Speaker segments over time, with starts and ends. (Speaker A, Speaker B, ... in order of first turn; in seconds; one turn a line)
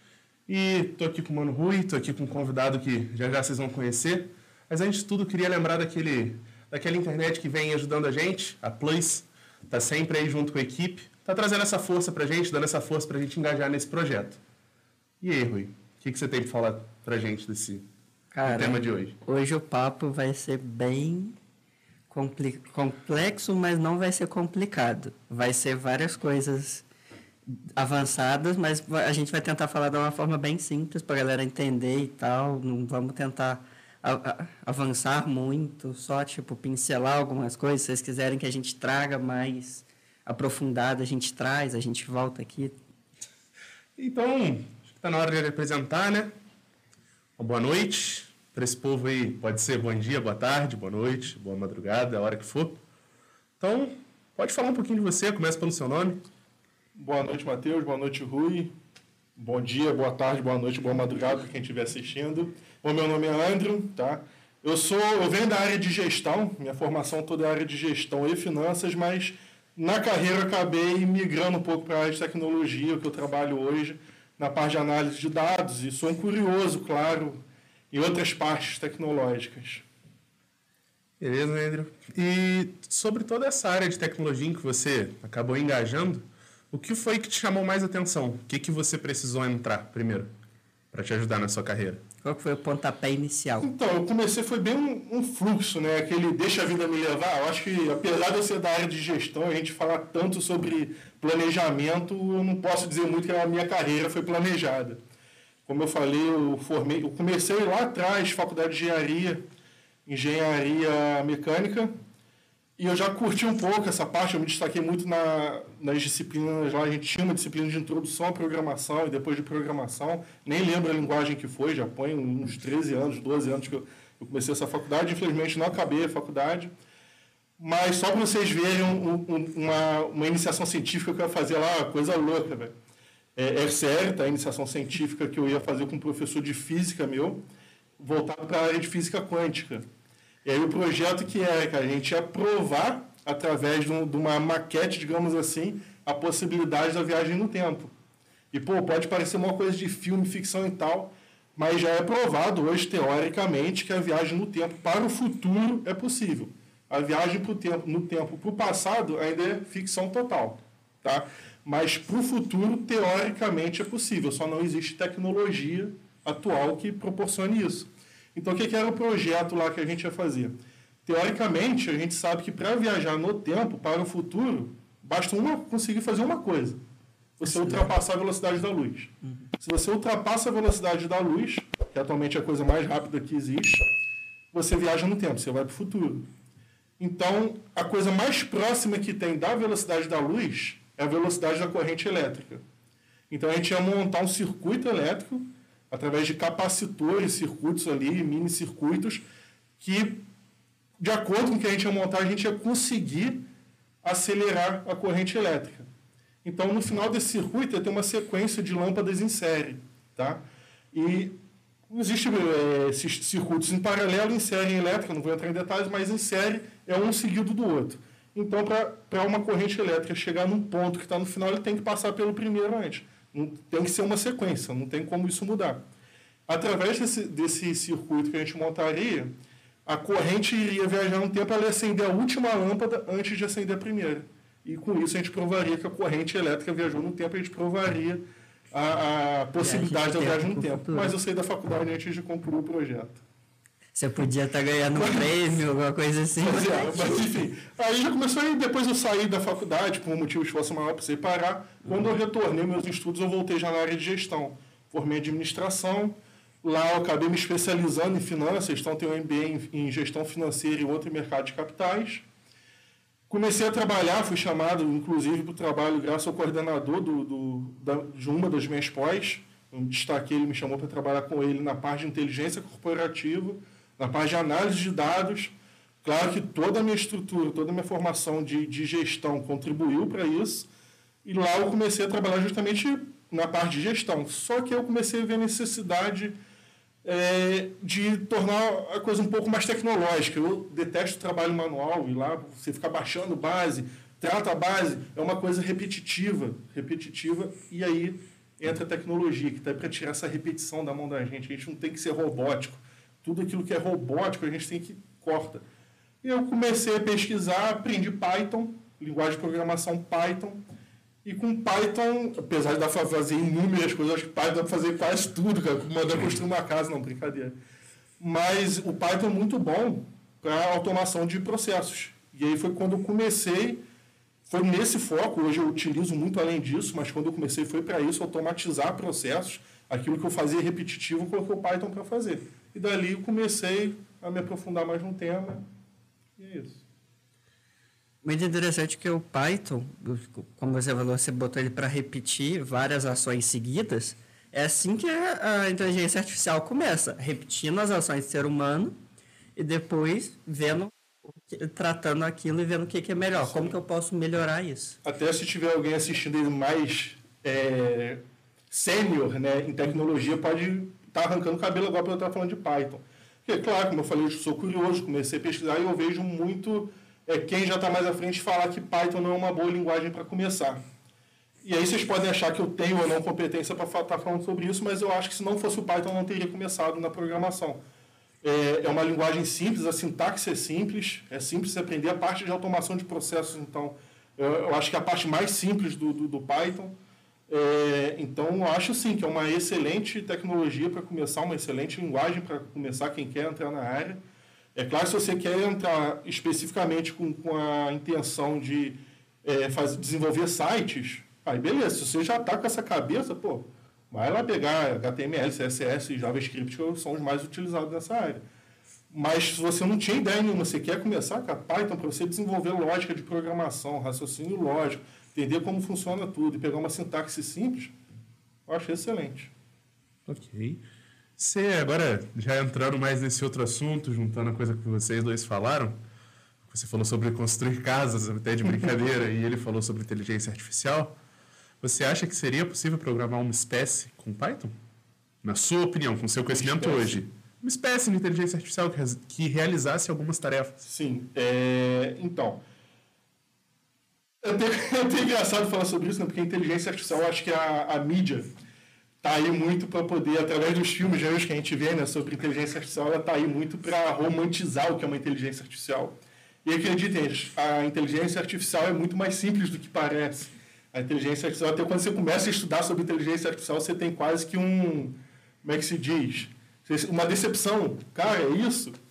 Speaker A: 0.5-14.4
Speaker A: 15.2-17.9
Speaker B: 18.3-21.4
Speaker A: 18.4-19.1
Speaker B: 22.1-26.9
Speaker B: 27.5-42.8
Speaker A: 44.0-46.3
Speaker A: 47.4-52.8
Speaker A: 53.6-56.2
Speaker C: 57.0-58.7
Speaker C: 59.4-77.4
Speaker C: 77.9-79.8
Speaker A: 81.2-90.3
Speaker A: 90.9-92.0
Speaker B: 92.2-93.7
Speaker C: 93.6-105.0
Speaker C: 105.7-109.4
Speaker C: 110.1-111.9
Speaker C: 112.8-126.7
Speaker C: 127.6-132.7
Speaker C: 133.4-137.4
Speaker C: 138.0-139.8
Speaker C: 140.4-147.9
Speaker C: 148.5-170.6
Speaker C: 171.1-176.8
Speaker C: 177.4-183.9
Speaker B: 177.4-177.9
Speaker C: 184.5-186.2
Speaker C: 187.0-192.6
Speaker C: 193.3-199.2
Speaker C: 199.8-200.2
Speaker C: 201.0-203.4
Speaker C: 204.0-205.9
Speaker C: 206.4-210.4
Speaker C: 210.9-211.3
Speaker C: 211.9-225.8
Speaker C: 226.5-229.3
Speaker C: 229.9-243.2
Speaker B: 239.6-241.1
Speaker B: 243.9-247.3
Speaker C: 244.9-245.4
Speaker C: 246.4-262.2
Speaker C: 263.3-275.5
Speaker C: 276.0-280.7
Speaker C: 281.2-286.4
Speaker C: 287.0-305.6
Speaker C: 306.2-310.6
Speaker C: 311.2-317.6
Speaker C: 318.2-323.8
Speaker C: 324.5-335.7
Speaker C: 336.4-336.8
Speaker B: 338.2-348.9
Speaker B: 349.6-355.0
Speaker C: 353.3-353.8
Speaker C: 355.0-370.8
Speaker C: 371.6-377.8
Speaker C: 378.4-386.9
Speaker C: 387.5-394.2
Speaker C: 394.8-408.4
Speaker C: 409.1-417.9
Speaker C: 418.7-419.5
Speaker A: 420.3-420.8
Speaker A: 421.4-426.0
Speaker A: 426.7-431.2
Speaker A: 431.8-434.7
Speaker A: 435.4-440.8
Speaker C: 436.5-437.2
Speaker C: 440.8-442.6
Speaker C: 444.4-448.5
Speaker C: 449.2-468.9